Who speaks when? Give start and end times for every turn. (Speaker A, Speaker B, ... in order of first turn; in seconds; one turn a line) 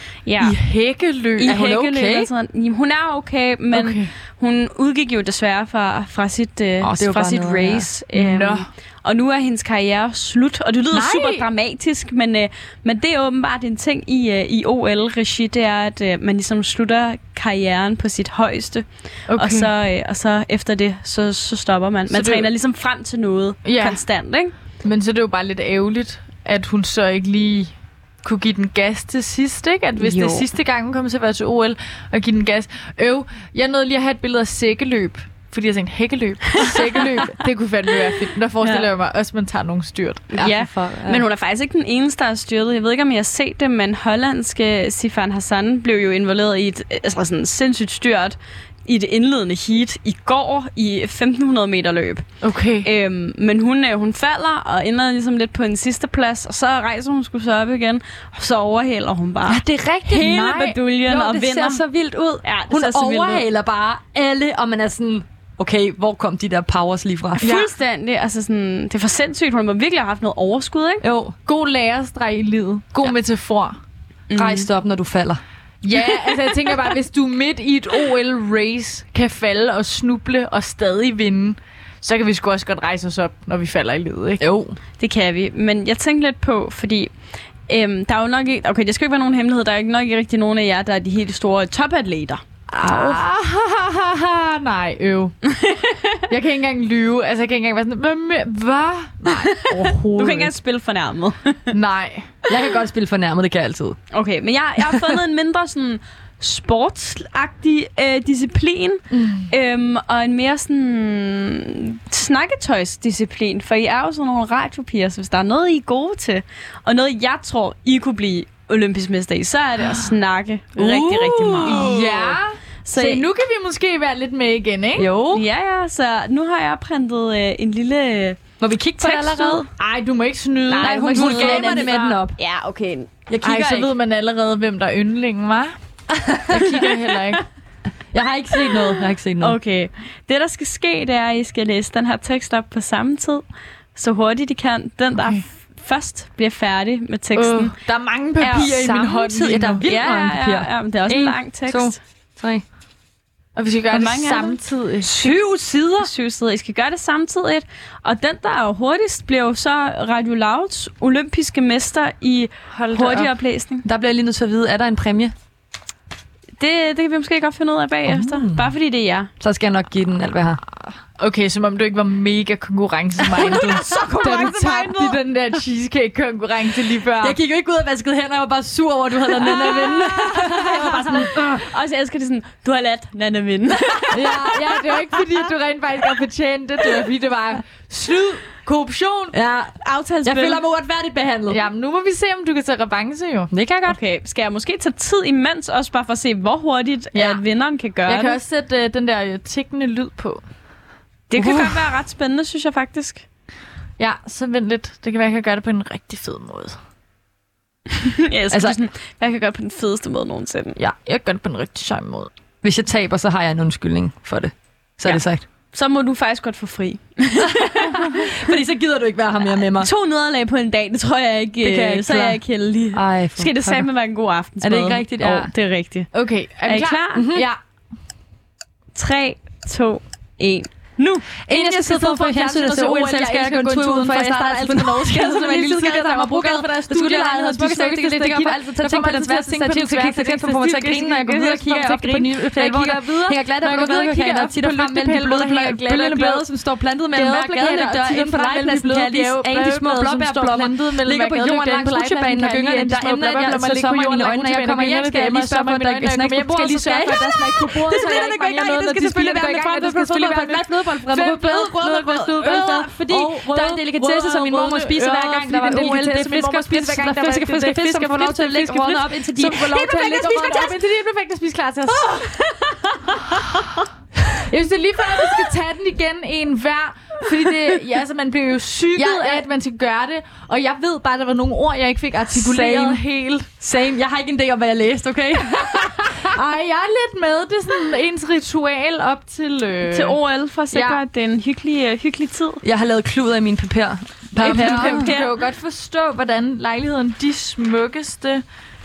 Speaker A: 0.2-0.6
Speaker B: 0.4-1.6
Speaker A: 1.4-24.5
Speaker C: 1.5-2.3
Speaker B: 3.7-4.1
Speaker C: 6.8-7.9
Speaker B: 8.1-8.7
Speaker B: 10.9-11.5
Speaker B: 19.3-19.7
Speaker B: 22.1-22.5
Speaker B: 23.6-24.0
Speaker B: 24.8-40.5
Speaker A: 30.0-30.5
Speaker A: 36.6-36.9
Speaker A: 38.6-38.9
Speaker A: 40.3-52.2
Speaker C: 40.4-41.2
Speaker B: 52.4-52.9
Speaker A: 52.8-61.8
Speaker C: 59.4-67.5
Speaker B: 60.1-60.7
Speaker A: 62.4-63.4
Speaker A: 67.4-71.0
Speaker B: 67.4-67.7
Speaker C: 71.0-71.3
Speaker B: 71.4-73.8
Speaker A: 74.3-74.7
Speaker C: 74.3-75.4
Speaker B: 75.8-84.4
Speaker C: 84.4-84.8
Speaker A: 85.0-87.1
Speaker A: 87.7-93.1
Speaker B: 92.7-95.3
Speaker A: 95.5-96.2
Speaker B: 96.3-100.5
Speaker A: 99.5-101.7
Speaker B: 101.7-102.4
Speaker C: 102.5-104.0
Speaker A: 104.1-122.0
Speaker C: 104.8-105.2
Speaker C: 120.8-122.4
Speaker B: 121.6-125.1
Speaker A: 122.8-123.2
Speaker C: 125.0-125.4
Speaker A: 125.3-128.4
Speaker C: 128.6-129.7
Speaker A: 129.0-129.6
Speaker B: 129.7-131.9
Speaker A: 130.7-133.1
Speaker C: 130.8-132.4
Speaker C: 133.3-133.9
Speaker B: 133.4-135.7
Speaker C: 136.1-136.9
Speaker B: 136.5-137.4
Speaker C: 138.1-139.6
Speaker A: 139.4-147.7
Speaker B: 147.3-149.8
Speaker A: 148.4-148.8
Speaker C: 148.5-152.6
Speaker A: 149.8-151.9
Speaker B: 153.6-155.1
Speaker A: 153.9-154.6
Speaker C: 155.0-156.1
Speaker A: 156.0-163.8
Speaker B: 162.7-163.3
Speaker C: 163.8-165.3
Speaker A: 166.6-169.3
Speaker C: 168.1-168.7
Speaker C: 169.4-170.6
Speaker B: 171.2-177.4
Speaker C: 173.3-174.9
Speaker A: 173.4-175.1
Speaker C: 177.2-181.7
Speaker B: 179.4-181.2
Speaker A: 179.5-179.9
Speaker A: 181.1-184.5
Speaker B: 184.1-189.3
Speaker C: 189.3-191.6
Speaker A: 189.8-190.6
Speaker B: 191.5-193.5
Speaker C: 193.5-194.0
Speaker A: 193.8-198.4
Speaker B: 197.1-197.4
Speaker B: 198.1-200.4
Speaker A: 201.3-203.2
Speaker C: 201.3-201.8
Speaker B: 204.0-206.8
Speaker A: 208.0-210.8
Speaker C: 208.5-208.8
Speaker B: 210.8-212.3
Speaker C: 212.6-215.4
Speaker A: 215.0-218.3
Speaker C: 217.6-219.9
Speaker A: 219.7-226.1
Speaker C: 221.6-222.4
Speaker C: 222.9-223.9
Speaker C: 224.6-225.5
Speaker B: 226.1-227.6
Speaker A: 226.7-227.2
Speaker C: 227.1-227.4
Speaker A: 228.9-231.3
Speaker C: 231.5-270.8
Speaker B: 231.5-246.4
Speaker B: 247.1-273.6
Speaker B: 274.4-283.5
Speaker C: 278.9-279.4
Speaker C: 282.3-283.0
Speaker C: 283.6-286.3
Speaker B: 285.6-290.2
Speaker A: 289.8-292.6
Speaker B: 290.7-291.0
Speaker C: 292.6-295.1
Speaker B: 294.3-298.4
Speaker A: 294.4-295.3